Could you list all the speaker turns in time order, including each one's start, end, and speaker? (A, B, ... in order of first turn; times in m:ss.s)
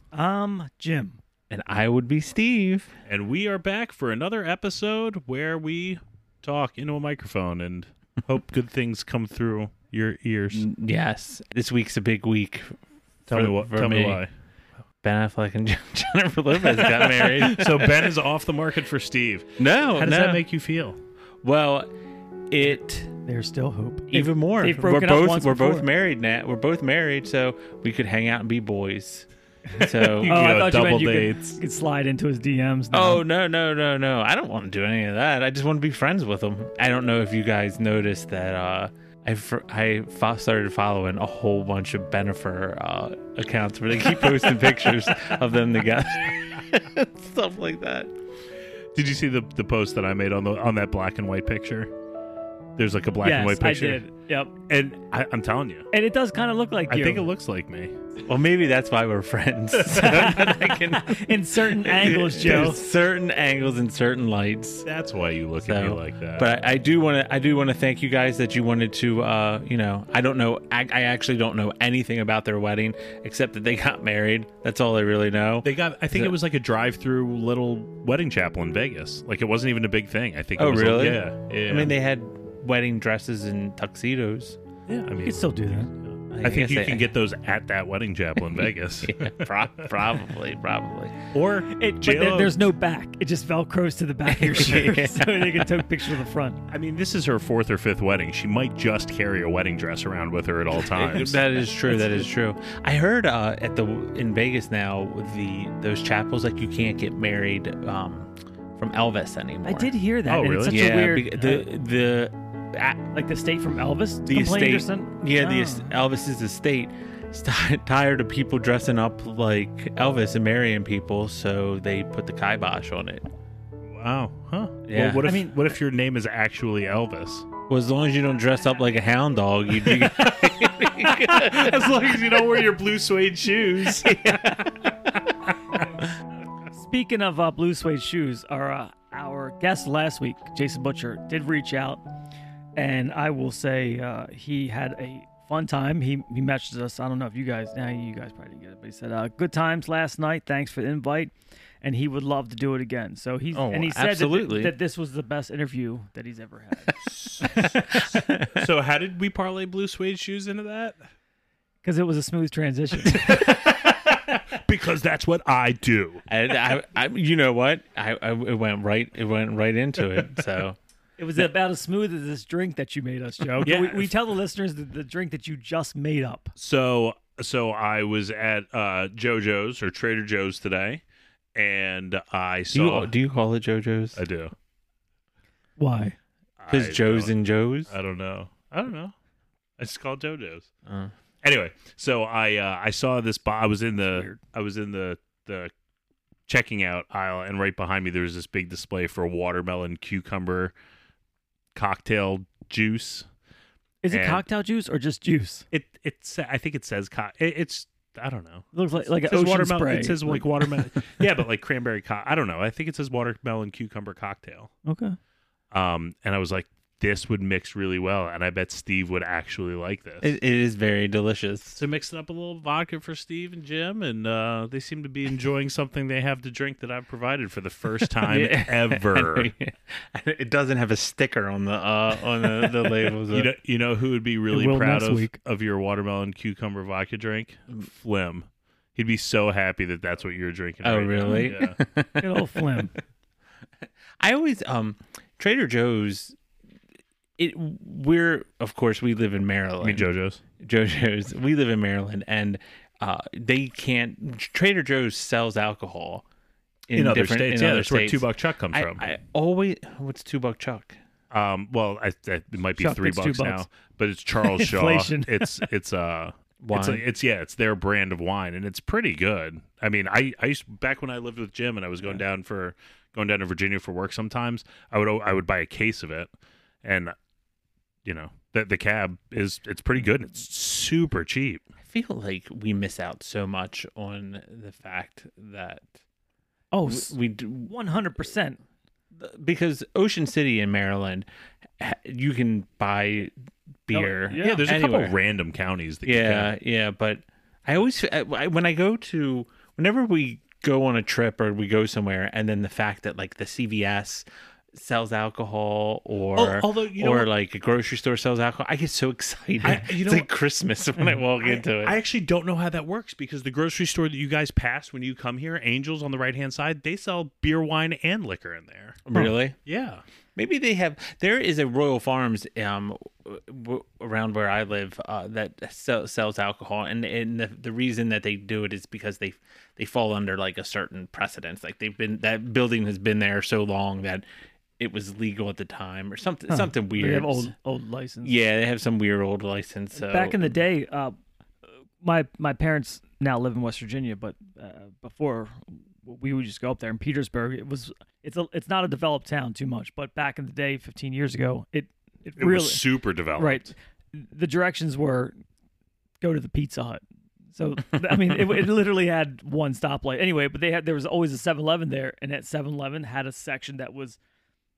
0:00.1-0:01.2 A
0:01.5-0:02.9 B
0:03.1-0:10.7 C
0:10.5-0:12.8 B
0:13.3-0:14.3 C
0:13.3-0:14.2 B
0:15.0-0:18.1 B
0:17.0-0:21.0 C
0:19.6-0:20.4 B
0:21.4-0:21.9 B
0:22.5-0:23.2 B
0:23.2-0:25.8 A
0:24.1-0:30.6 B
0:29.7-0:33.2 A
0:30.1-0:31.6 C
0:32.9-0:48.2 B
0:48.9-0:51.9 C
0:52.8-0:54.0 C
0:53.2-0:54.5 A
0:54.7-0:55.9 C
0:55.9-0:57.3 A
0:56.9-0:58.0 C
0:58.2-1:04.9 B
0:59.8-1:00.5 C
1:00.0-1:02.8 A
1:02.4-1:02.8 C
1:04.8-1:06.5 C
1:05.6-1:16.4 B
1:15.6-1:21.9 C
1:20.6-1:24.6 B
1:24.9-1:29.9 C
1:25.2-1:25.9 A
1:26.3-1:27.1 B
1:28.4-1:31.2 B
1:31.3-1:32.7 C
1:31.7-1:36.6 A
1:34.3-1:36.1 B
1:36.7-1:41.5 C
1:40.7-1:49.9 B
1:49.6-1:51.7 A
1:50.3-1:50.8 C
1:50.7-1:53.2 B
1:53.1-1:55.9 A
1:54.3-2:03.3 B
2:03.9-2:07.5 C
2:04.9-2:05.3 B
2:05.3-2:05.6 A
2:07.7-2:11.9 B
2:09.9-2:14.6 C
2:14.0-2:14.9 B
2:16.0-2:22.0 A
2:22.8-2:37.0 A
2:33.5-2:34.7 B
2:37.2-2:41.0 C
2:37.6-2:38.7 B
2:41.8-2:43.4 A
2:43.2-2:46.2 C
2:46.3-2:50.8 B
2:51.2-2:56.5 A
2:53.6-2:54.1 C
2:56.6-3:01.0 C
3:01.6-3:03.1 C
3:02.7-3:04.2 B
3:04.2-3:04.5 C
3:05.8-3:06.2 A
3:06.6-3:07.4 C
3:06.7-3:07.9 B
3:07.9-3:09.1 C
3:09.8-3:10.7 C
3:10.9-3:11.1 B
3:11.4-3:15.7 C
3:14.0-3:14.4 A
3:16.5-3:20.7 C
3:21.8-3:23.3 C
3:24.0-3:25.7 A
3:24.1-3:24.4 C
3:25.7-3:28.7 C
3:28.7-3:30.5 A
3:29.2-3:34.7 C
3:34.8-3:35.2 A
3:35.7-3:40.3 C
3:40.2-3:41.8 B
3:41.8-3:49.5 C
3:48.1-3:53.5 B
3:53.3-4:01.8 C
3:54.5-3:55.3 A
4:00.8-4:02.9 B
4:01.3-4:01.5 A
4:02.2-4:02.9 A
4:04.2-4:06.4 B
4:07.4-4:10.1 B
4:09.8-4:10.4 C
4:10.6-4:16.2 B
4:16.9-4:21.0 B
4:16.9-4:19.1 C
4:21.3-4:36.3 C
4:22.8-4:23.6 A
4:24.4-4:25.6 A
4:26.6-4:27.0 B
4:36.8-4:37.2 C
4:38.0-4:41.6 C
4:41.8-4:45.9 B
4:46.7-4:48.6 A
4:46.9-4:47.7 B
4:49.2-4:51.3 B
4:51.8-4:53.3 B
4:53.9-4:55.2 B
4:53.9-4:54.6 A
4:54.4-4:56.5 C
4:56.0-5:12.0 B
5:06.4-5:07.3 C
5:09.6-5:10.3 C
5:11.4-5:19.1 C
5:19.1-5:19.6 B
5:19.6-5:20.0 C
5:20.4-5:34.2 B
5:34.8-5:37.5 B
5:36.5-5:38.4 A
5:38.2-5:40.6 B
5:40.0-5:41.2 A
5:42.0-5:55.4 A
5:52.4-5:53.7 C
5:56.2-5:57.0 A
5:57.5-6:04.2 A